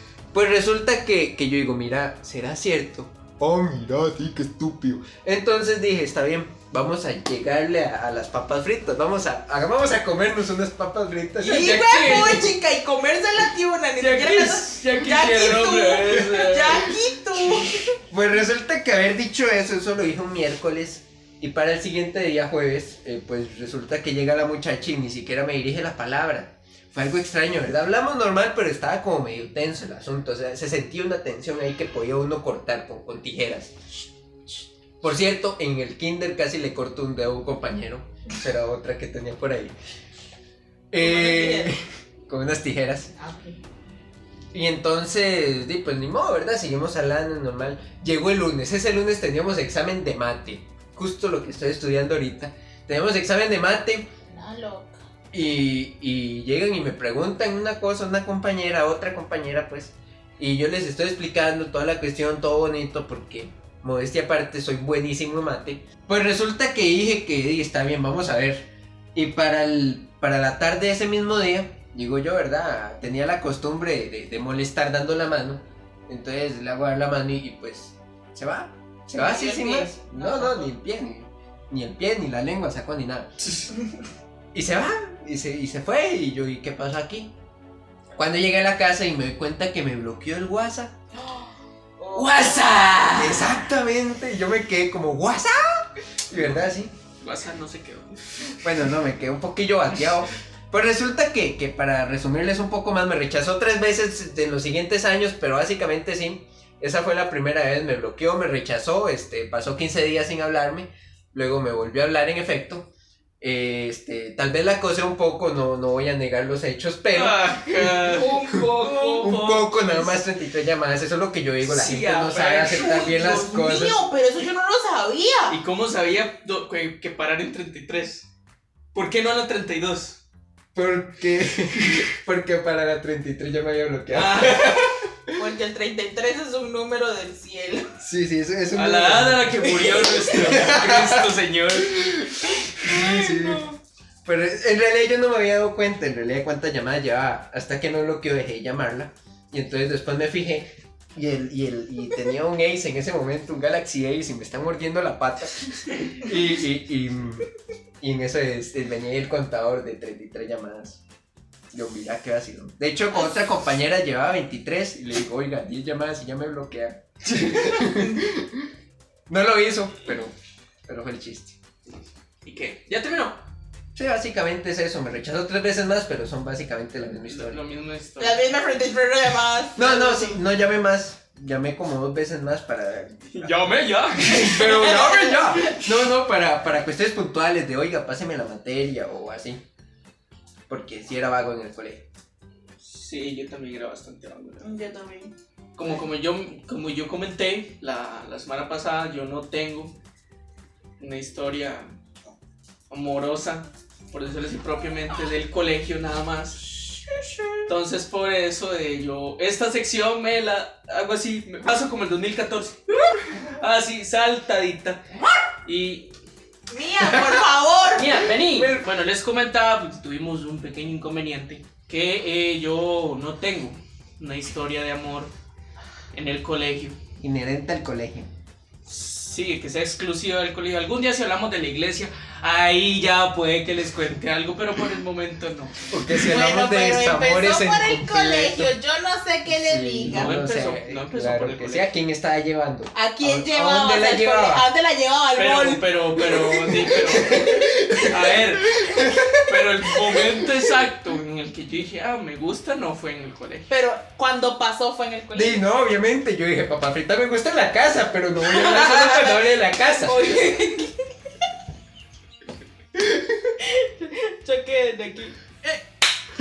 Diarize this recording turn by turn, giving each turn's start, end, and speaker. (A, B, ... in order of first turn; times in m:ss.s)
0:00.3-0:12.5 A
0:11.4-0:18.0 B
0:11.7-0:12.4 C
0:14.0-0:16.9 C
0:18.1-0:33.8 A
0:35.0-0:39.7 A
0:40.9-0:43.1 A
0:41.0-0:41.7 B
0:43.2-0:43.6 B
0:44.5-0:54.1 A
0:54.3-0:55.0 B
0:55.3-1:23.3 A
1:19.2-1:20.7 B
1:24.5-1:27.3 A
1:28.2-1:30.9 A
1:31.1-1:32.8 B
1:32.1-1:33.6 C
1:33.2-1:36.9 A
1:36.3-1:38.9 C
1:38.6-1:52.9 A
1:53.4-1:57.9 A
1:57.1-2:00.2 C
1:57.8-1:59.3 B
1:59.2-2:04.0 A
2:01.6-2:03.5 C
2:02.7-2:05.6 B
2:05.5-2:08.3 C
2:08.9-2:10.2 C
2:10.8-2:14.8 A
2:11.8-2:12.1 C
2:14.1-2:15.0 C
2:15.3-2:17.9 B
2:18.0-2:23.6 A
2:18.7-2:22.5 C
2:19.8-2:20.1 B
2:22.6-2:23.8 B
2:24.2-2:37.5 A
2:38.0-2:41.0 A
2:41.7-2:48.7 A
2:43.1-2:43.4 B
2:49.3-2:50.4 A
2:50.9-2:51.6 A
2:52.4-2:53.4 C
2:54.0-2:57.6 A
2:57.3-2:58.4 C
2:58.2-3:00.4 B
2:59.8-3:03.6 A
3:03.3-3:04.9 C
3:04.3-3:09.6 A
3:04.4-3:05.9 B
3:10.7-3:12.0 A
3:12.8-3:14.7 C
3:14.6-3:15.3 B
3:15.8-3:19.9 C
3:21.0-3:22.0 C
3:22.9-3:26.8 C
3:27.7-3:36.1 C
3:36.7-3:38.3 B
3:38.0-3:45.3 C
3:46.1-3:47.0 C
3:47.2-3:48.3 A
3:48.9-3:55.9 C
3:55.9-3:58.7 A
3:56.2-4:00.4 B
3:59.5-4:04.7 A
4:00.0-4:01.9 C
4:02.9-4:06.3 B
4:05.4-4:13.7 C
4:06.3-4:09.3 A
4:06.9-4:08.1 B
4:08.7-4:10.5 B
4:13.7-4:15.7 B
4:15.3-4:20.4 A
4:18.4-4:21.0 B
4:23.6-4:25.8 B